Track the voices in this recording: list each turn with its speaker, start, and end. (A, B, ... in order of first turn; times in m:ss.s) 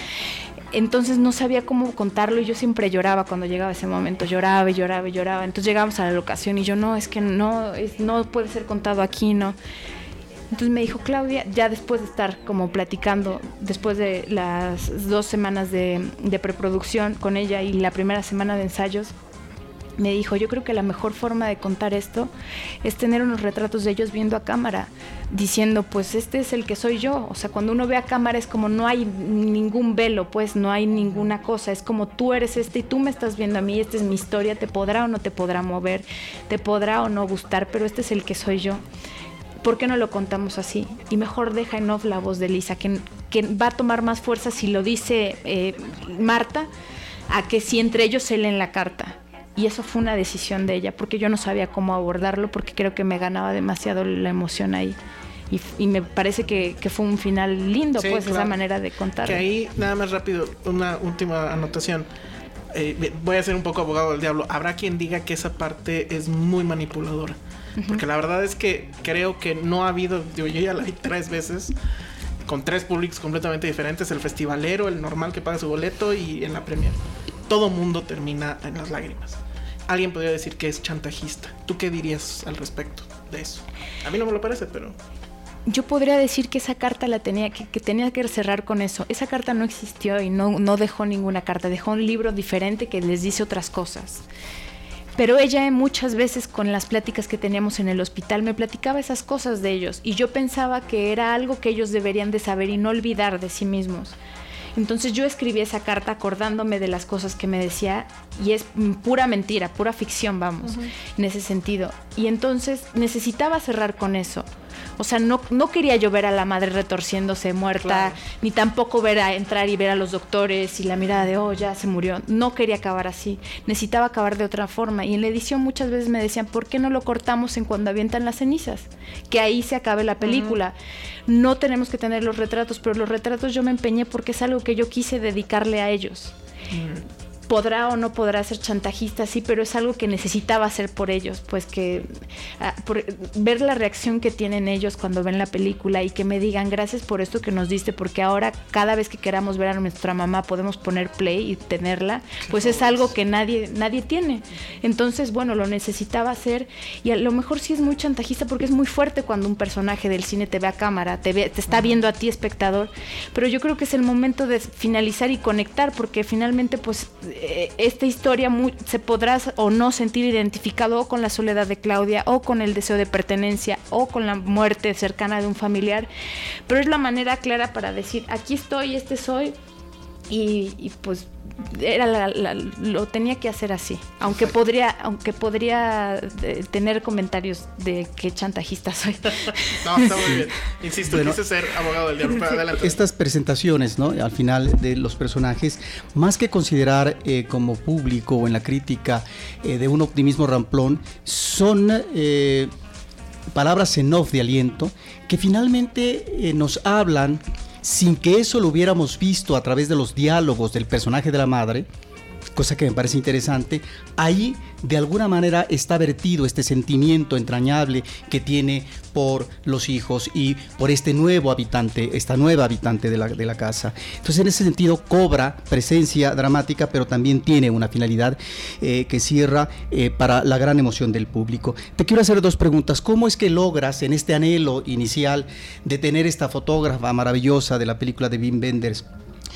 0:00.7-0:09.6 A
0:10.5-0:19.1 A
0:20.0-0:22.3 A
0:22.8-0:38.8 A
0:39.6-0:46.7 A
0:47.3-0:55.0 A
0:55.5-0:59.4 A
0:58.0-0:58.5 B
0:59.2-1:02.1 B
1:02.7-1:07.4 B
1:07.8-1:08.0 A
1:07.9-1:11.7 B
1:12.5-1:17.0 B
1:17.5-1:19.4 B
1:19.9-1:24.9 B
1:25.6-1:34.2 A
1:35.2-1:44.2 A
1:44.8-1:54.4 A
1:55.0-2:10.7 A
1:57.8-1:58.2 B
2:10.2-2:10.5 B
2:11.3-2:16.3 A
2:16.7-2:17.0 B
2:17.5-2:56.1 A
2:56.7-2:59.5 A
3:00.3-3:10.0 A
3:09.8-3:13.0 B
3:11.1-3:11.4 C
3:12.8-3:22.7 C
3:23.5-3:31.9 C
3:32.5-3:59.0 C